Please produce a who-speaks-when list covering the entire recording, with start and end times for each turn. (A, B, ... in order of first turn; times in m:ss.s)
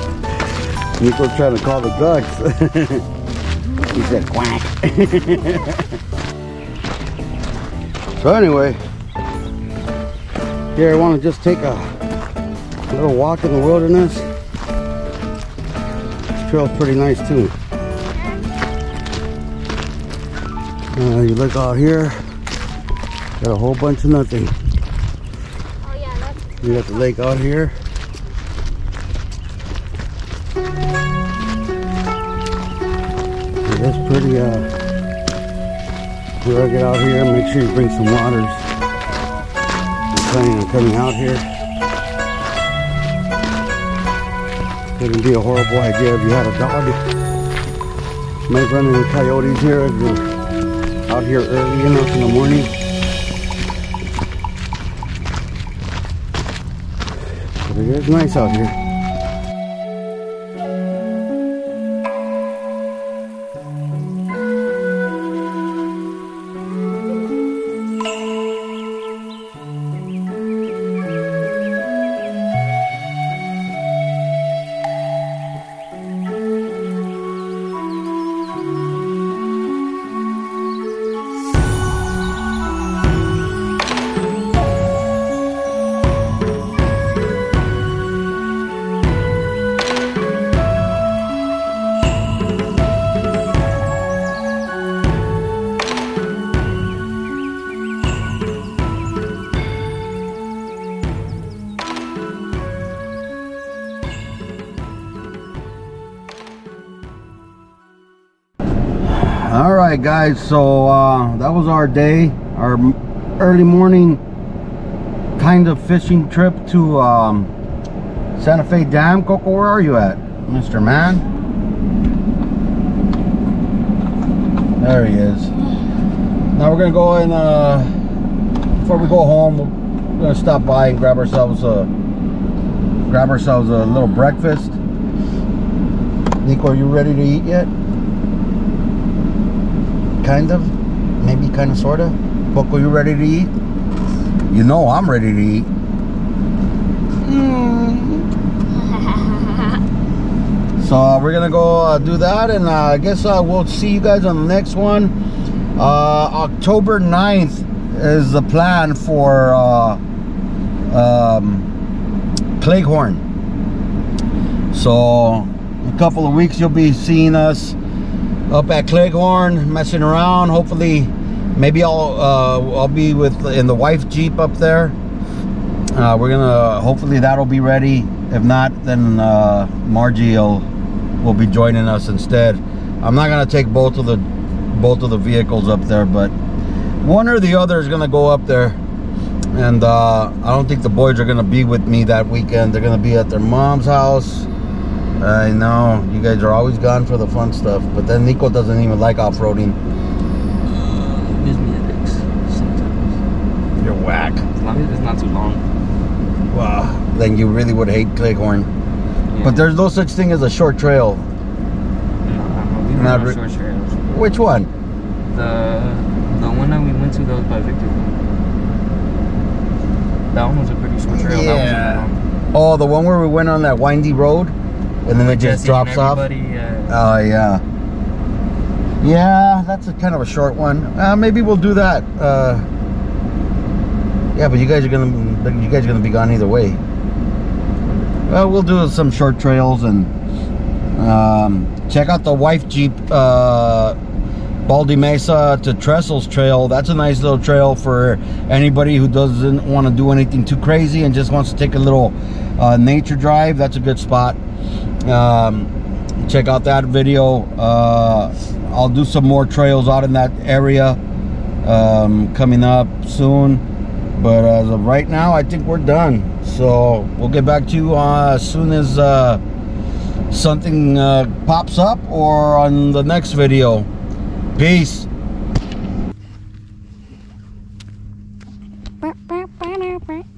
0:01.0-0:03.0 A
0:03.8-0:04.2 B
0:03.9-0:05.8 A
0:08.2-0:08.8 A
0:10.8-0:11.9 A
0:12.9-0:14.3 A
0:16.4-0:17.5 A
0:18.1-0:18.4 B
0:21.0-0:22.2 A
0:23.4-0:24.5 A
0:25.8-0:27.1 B
0:26.6-0:27.8 A
0:33.6-0:34.7 A
0:36.4-0:38.6 A
0:40.1-0:41.4 A
0:45.0-0:47.0 A
0:48.5-0:50.2 A
0:51.1-0:52.7 A
0:57.6-0:58.8 A
1:49.0-1:54.2 A
1:55.4-1:57.5 A
1:58.4-2:01.2 A
2:04.8-2:05.5 A
2:06.5-2:07.9 A
2:08.8-2:11.9 A
2:13.1-2:14.8 A
2:16.4-2:17.7 A
2:20.2-2:23.5 A
2:24.5-2:25.7 A
2:27.2-2:28.3 A
2:29.0-2:29.8 B
2:30.8-2:35.1 A
2:35.8-2:40.0 A
2:40.9-2:41.7 A
2:42.6-2:43.2 A
2:44.7-2:47.8 A
2:48.5-2:55.0 A
2:55.9-3:00.7 A
3:01.2-3:06.3 A
3:07.0-3:08.8 A
3:09.5-3:14.5 A
3:15.2-3:19.8 A
3:20.7-3:23.2 C
3:23.8-3:24.4 A
3:24.5-3:25.6 C
3:26.5-3:28.7 A
3:29.3-3:29.7 C
3:29.4-3:31.3 A
3:32.2-3:34.0 C
3:32.9-3:33.4 A
3:34.1-3:34.7 A
3:35.3-3:38.1 C
3:40.3-3:42.2 C
3:41.1-3:44.6 A
3:45.1-3:46.2 A
3:45.2-3:47.0 C
3:46.9-3:47.6 A
3:49.0-3:52.7 A
3:54.4-3:56.8 A
3:58.3-4:00.1 A
4:01.0-4:04.0 A
4:04.7-4:14.4 A
4:15.0-4:21.0 A
4:21.6-4:23.6 A
4:24.2-4:29.4 A
4:30.3-4:33.9 A
4:34.6-4:35.1 A
4:39.0-4:40.2 B